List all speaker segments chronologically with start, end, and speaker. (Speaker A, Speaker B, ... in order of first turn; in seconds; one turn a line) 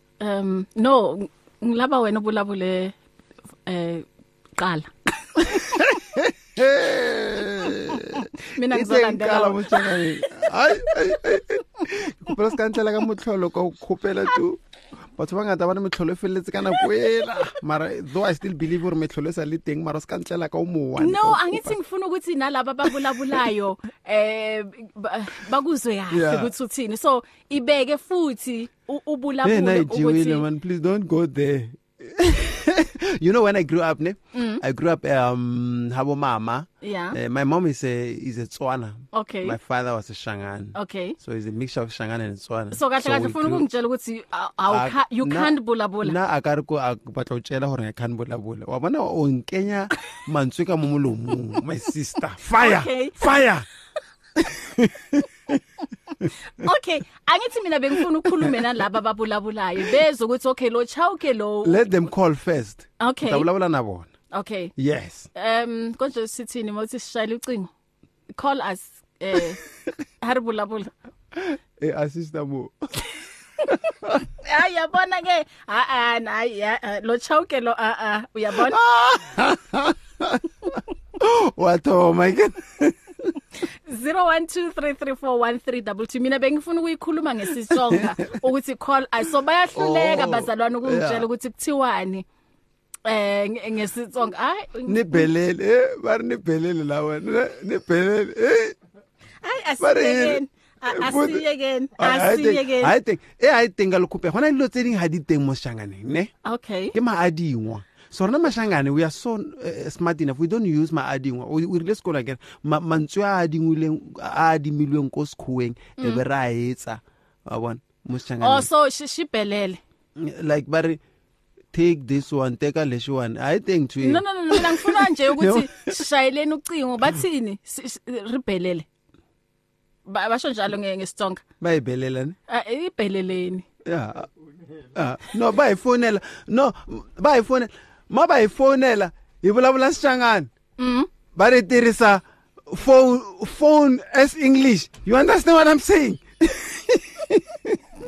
Speaker A: 0.2-2.9
Speaker A: 3.7-4.0
Speaker A: 4.6-5.8
Speaker B: 5.5-14.6
Speaker A: 8.5-9.9
Speaker B: 15.2-21.7
Speaker A: 21.0-30.4
Speaker B: 26.1-26.5
Speaker B: 29.4-43.7
Speaker A: 34.3-34.6
Speaker A: 36.8-37.2
Speaker A: 39.1-39.6
Speaker A: 40.7-41.2
Speaker A: 42.7-46.1
Speaker B: 44.7-53.6
Speaker A: 52.6-53.2
Speaker B: 54.4-55.6
Speaker A: 56.6-61.8
Speaker B: 58.2-58.6
Speaker B: 61.6-64.1
Speaker A: 63.0-63.5
Speaker A: 64.3-64.7
Speaker B: 64.8-65.3
Speaker A: 65.3-67.7
Speaker A: 68.3-69.6
Speaker A: 70.2-70.9
Speaker B: 71.3-72.9
Speaker B: 73.7-74.2
Speaker A: 74.4-78.8
Speaker B: 78.6-83.3
Speaker A: 83.9-92.2
Speaker B: 87.7-88.2
Speaker B: 89.7-91.3
Speaker A: 93.0-95.3
Speaker B: 94.8-98.8
Speaker A: 99.4-102.9
Speaker B: 99.8-101.4
Speaker B: 102.0-106.3
Speaker A: 106.4-106.9
Speaker B: 106.9-118.7
Speaker A: 116.0-116.2
Speaker A: 118.4-119.8
Speaker B: 120.2-121.0
Speaker B: 121.7-126.0
Speaker A: 124.0-128.8
Speaker A: 130.1-131.4
Speaker B: 131.6-132.4
Speaker A: 132.5-133.6
Speaker B: 133.8-134.3
Speaker B: 134.9-140.5
Speaker A: 140.8-141.1
Speaker B: 141.3-147.8